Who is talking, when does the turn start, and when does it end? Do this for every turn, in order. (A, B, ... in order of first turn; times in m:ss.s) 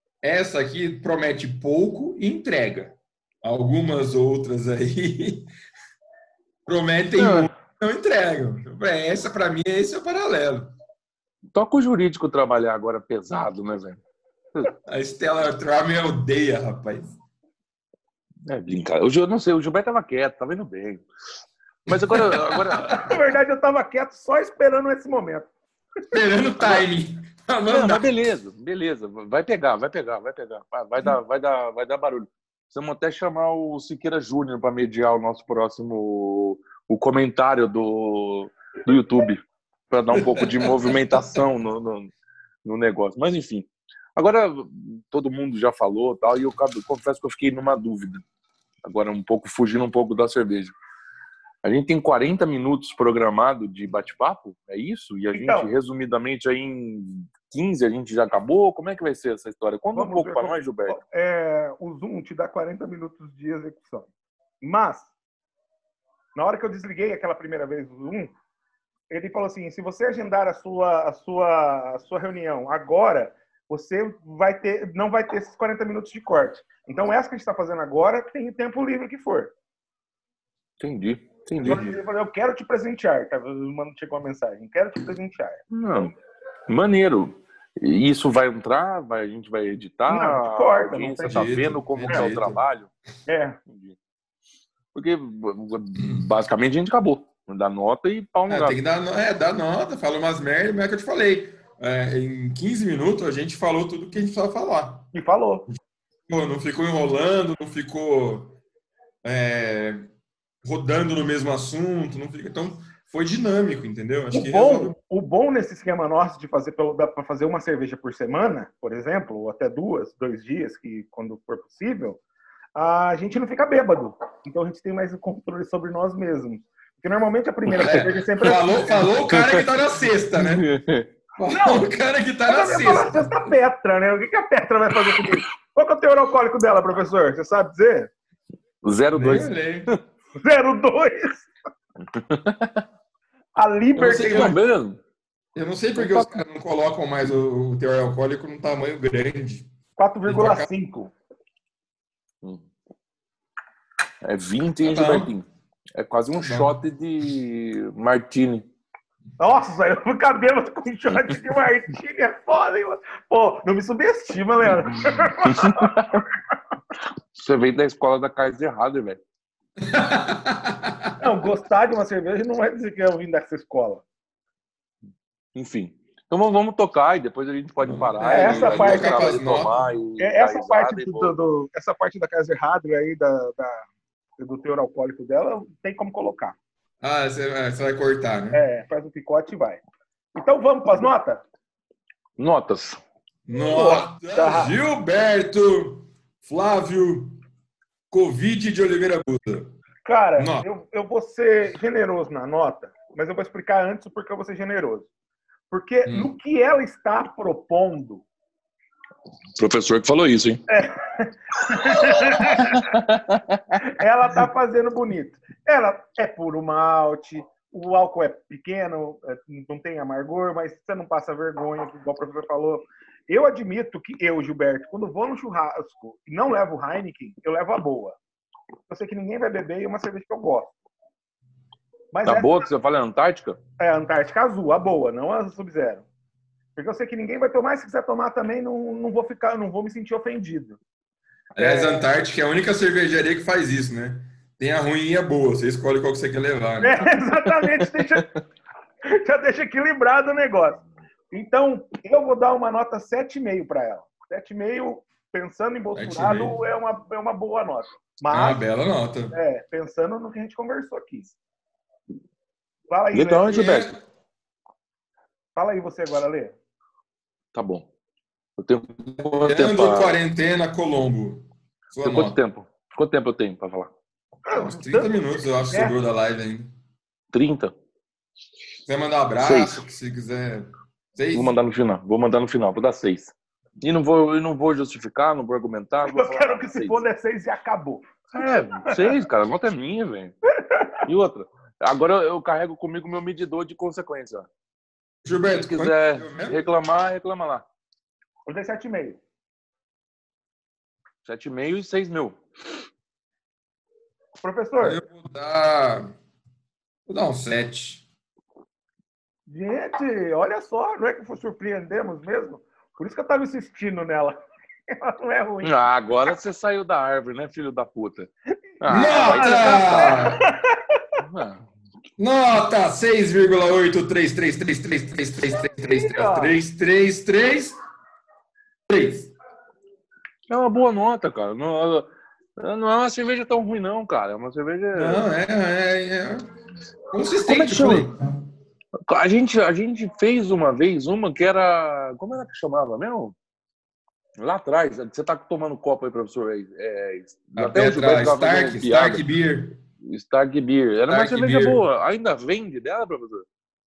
0:00.2-0:05.5 A
0:06.7-0:10.7 A
0:07.2-0:07.5 B
0:11.5-0:14.0 B
0:14.9-0:17.2 A
0:18.5-0:21.1 B
0:21.9-0:23.2 B
0:21.9-0:22.6 A
0:22.8-0:25.5 C
0:26.1-0:28.1 A
0:27.7-0:42.1 B
0:40.2-0:40.9 A
0:42.6-0:48.2 B
0:48.8-0:50.7 B
0:51.6-1:01.0 B
0:55.3-0:55.7 C
1:00.0-1:04.1 C
1:04.6-1:05.1 C
1:06.4-1:08.3 C
1:09.1-1:19.5 C
1:20.8-1:21.8 B
1:21.6-1:25.6 C
1:21.6-1:22.0 A
1:25.7-1:26.1 B
1:26.7-1:32.9 B
1:30.1-1:31.6 C
1:31.3-1:32.6 A
1:33.3-1:33.6 C
1:33.7-1:34.0 B
1:34.9-1:38.8 B
1:38.5-1:45.1 A
1:45.1-1:45.7 C
1:46.3-1:48.6 A
1:49.2-1:50.1 A
1:50.6-1:55.0 A
1:54.3-2:02.2 C
2:02.8-2:09.1 C
2:07.7-2:10.7 A
2:09.3-2:09.6 B
2:10.4-2:11.1 B
2:11.4-2:13.5 A
2:11.5-2:11.9 C
2:12.4-2:18.1 C
2:18.8-2:20.0 B
2:19.1-2:19.9 A
2:20.4-2:21.5 C
2:22.1-2:22.8 B
2:23.6-2:24.6 C
2:24.0-2:25.0 B
2:24.0-2:24.6 A
2:25.6-2:29.7 A
2:26.0-2:26.4 B
2:30.0-2:31.1 C
2:30.3-2:30.7 A
2:34.2-2:38.7 B
2:34.8-2:35.3 A
2:36.4-2:36.7 A
2:39.4-2:46.2 C
2:45.4-2:46.2 B
2:47.4-2:49.2 B
2:49.8-2:51.2 A
2:51.2-2:54.0 C
2:55.6-3:01.4 B
2:57.8-2:59.9 A
2:58.2-2:59.3 C
3:00.2-3:03.9 C
3:04.4-3:06.6 C
3:07.0-3:08.6 A
3:08.5-3:09.8 C
3:10.4-3:11.4 C
3:12.4-3:13.0 B
3:13.5-3:17.4 A
3:13.6-3:14.7 C
3:18.1-3:19.7 A
3:20.0-3:25.1 C
3:20.4-3:20.7 A
3:25.7-3:28.2 C
3:26.1-3:26.3 A
3:29.6-3:30.6 B
3:30.7-3:33.0 C
3:32.2-3:33.8 B
3:33.8-3:48.2 C
3:48.9-3:50.8 C
3:52.1-3:52.7 C
3:52.2-3:53.6 B
3:53.8-3:56.1 C
3:56.8-4:00.8 C
4:01.6-4:07.0 A
4:01.6-4:02.1 C
4:06.8-4:08.3 C
4:07.7-4:08.2 B
4:09.0-4:18.6 C
4:16.0-4:16.6 A
4:18.3-4:19.4 A
4:19.3-4:21.3 C
4:22.9-4:23.6 C
4:23.1-4:23.9 B
4:23.5-4:24.0 A
4:25.6-4:26.5 C
4:27.5-4:27.9 B
4:28.6-4:30.2 B
4:29.4-4:32.4 A
4:32.0-4:33.9 B
4:34.5-4:35.9 C
4:34.5-4:36.7 A
4:37.3-4:37.8 B
4:38.9-4:41.6 A
4:39.4-4:39.8 B
4:41.3-4:47.0 B
4:46.0-4:48.1 C
4:48.3-4:50.4 B
4:50.6-4:51.0 C
4:51.0-4:54.5 B
4:55.2-4:56.7 A
4:55.5-4:57.7 B
4:58.5-4:59.2 C
5:01.2-5:02.4 B
5:04.4-5:05.0 C
5:04.8-5:06.1 A
5:07.1-5:08.0 A
5:09.5-5:15.8 C
5:15.6-5:20.3 B
5:18.9-5:21.0 C
5:18.9-5:20.4 A
5:21.2-5:21.7 B
5:22.2-5:27.8 A
5:25.8-5:26.6 C
5:28.9-5:29.3 A
5:30.5-5:35.2 B
5:35.0-5:36.5 A
5:37.1-5:38.2 A
5:37.4-5:38.1 B
5:39.0-5:43.4 B
5:44.4-5:49.2 B
5:47.6-5:49.8 A
5:50.0-5:53.5 B
5:51.1-5:51.8 A